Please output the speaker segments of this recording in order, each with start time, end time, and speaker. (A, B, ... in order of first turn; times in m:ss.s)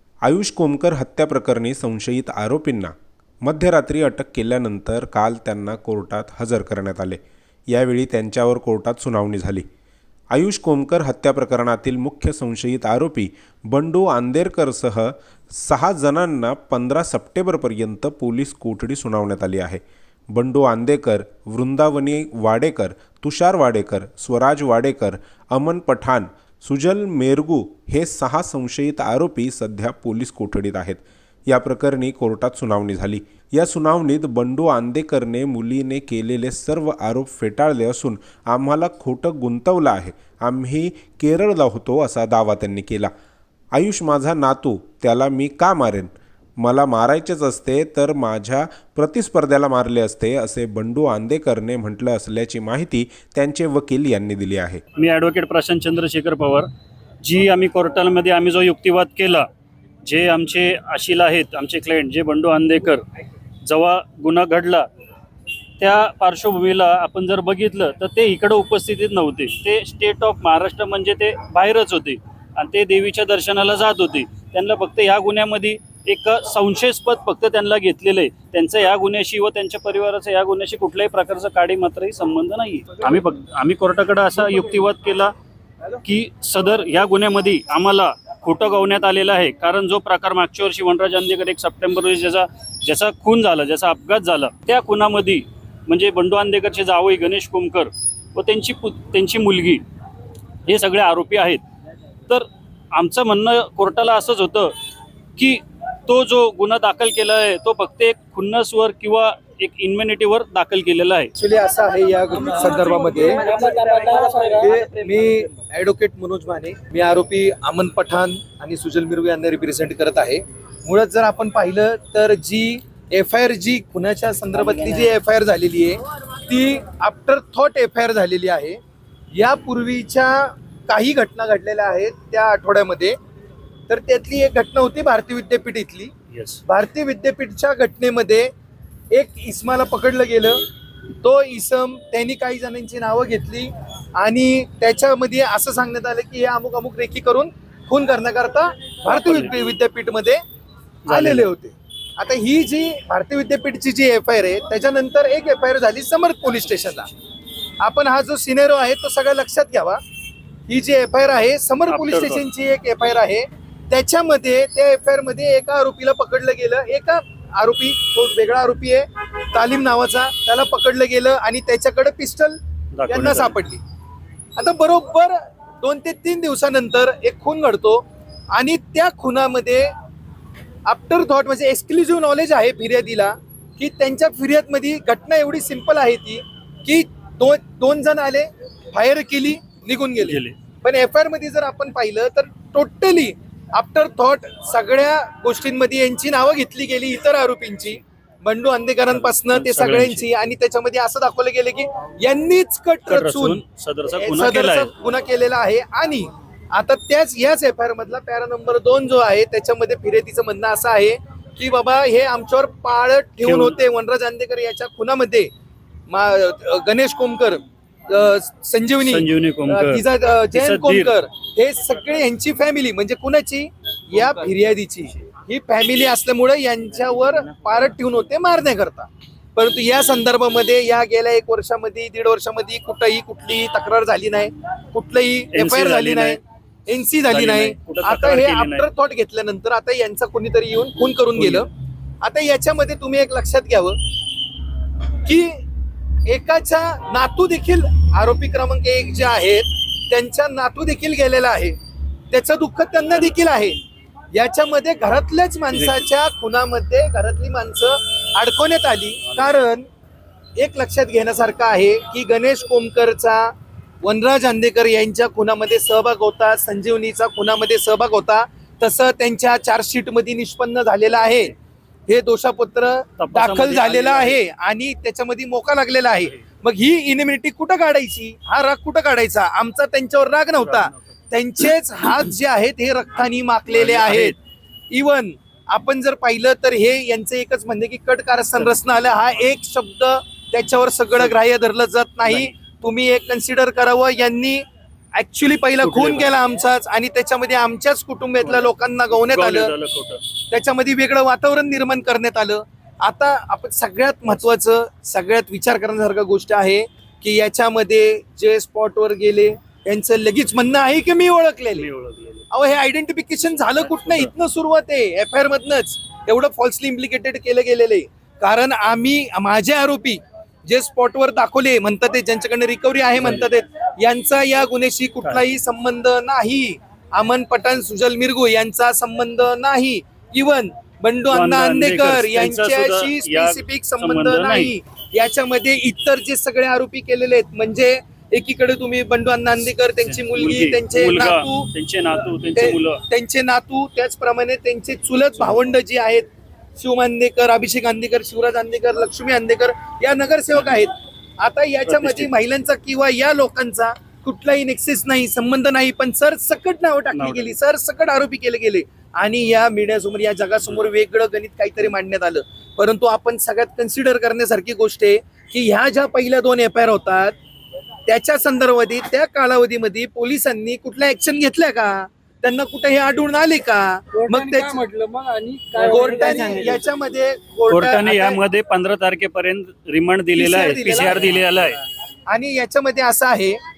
0:00.2-0:09.7 A
0:10.3-0:43.1 A
0:43.7-0:54.8 A
0:55.0-0:56.7 B
0:57.2-0:59.5 B
1:00.0-1:03.0 B
1:03.6-1:04.9 B
1:05.8-1:25.3 B
1:26.0-1:39.8 B
1:40.6-1:41.6 B
1:42.3-1:44.7 B
1:45.4-1:51.3 B
1:51.4-1:53.7 C
1:52.5-1:55.1 D
1:54.6-2:08.8 C
2:09.3-2:13.2 C
2:13.9-2:16.1 C
2:16.3-2:16.6 B
2:16.7-2:18.5 C
2:19.1-2:20.6 C
2:21.2-2:30.4 C
2:29.1-2:29.5 B
2:31.1-2:31.5 B
2:31.1-2:37.1 C
2:37.8-2:40.0 C
2:40.7-2:53.8 C
2:41.9-2:42.4 B
2:53.0-2:53.6 B
2:54.6-2:59.9 C
3:00.9-3:23.6 C
3:10.2-3:10.6 B
3:19.1-3:20.3 B
3:23.1-3:24.9 B
3:24.1-3:35.5 C
3:33.4-3:33.8 B
3:36.1-4:01.7 C
3:39.1-3:41.1 B
3:55.5-3:56.4 B
3:57.3-3:58.9 B
4:01.4-4:01.7 B
4:02.2-4:04.0 C
4:05.2-4:05.6 C
4:06.3-4:11.8 C
4:12.3-4:13.8 C
4:14.3-4:19.9 C
4:20.6-4:23.5 C
4:24.0-4:31.5 C
4:32.1-4:44.4 C
4:33.2-4:34.4 B
4:40.6-4:41.0 B
4:43.7-4:44.4 B
4:44.9-4:54.6 C
4:52.2-4:52.5 B
4:55.2-4:59.7 C
4:55.8-4:56.3 B
4:58.4-5:00.2 B
5:00.5-5:11.9 C
5:11.7-5:12.5 B
5:12.5-5:41.7 C
5:13.6-5:14.3 B
5:23.2-5:23.5 B
5:31.3-5:34.7 B
5:40.0-5:43.0 B
5:42.4-5:46.3 C
5:46.8-6:07.4 C
5:51.9-5:52.3 B
5:57.1-5:57.6 B
6:08.1-6:14.8 C
6:14.1-6:16.8 D
6:15.8-6:18.4 C
6:17.7-6:21.8 B
6:20.4-6:21.4 C
6:22.3-6:23.6 C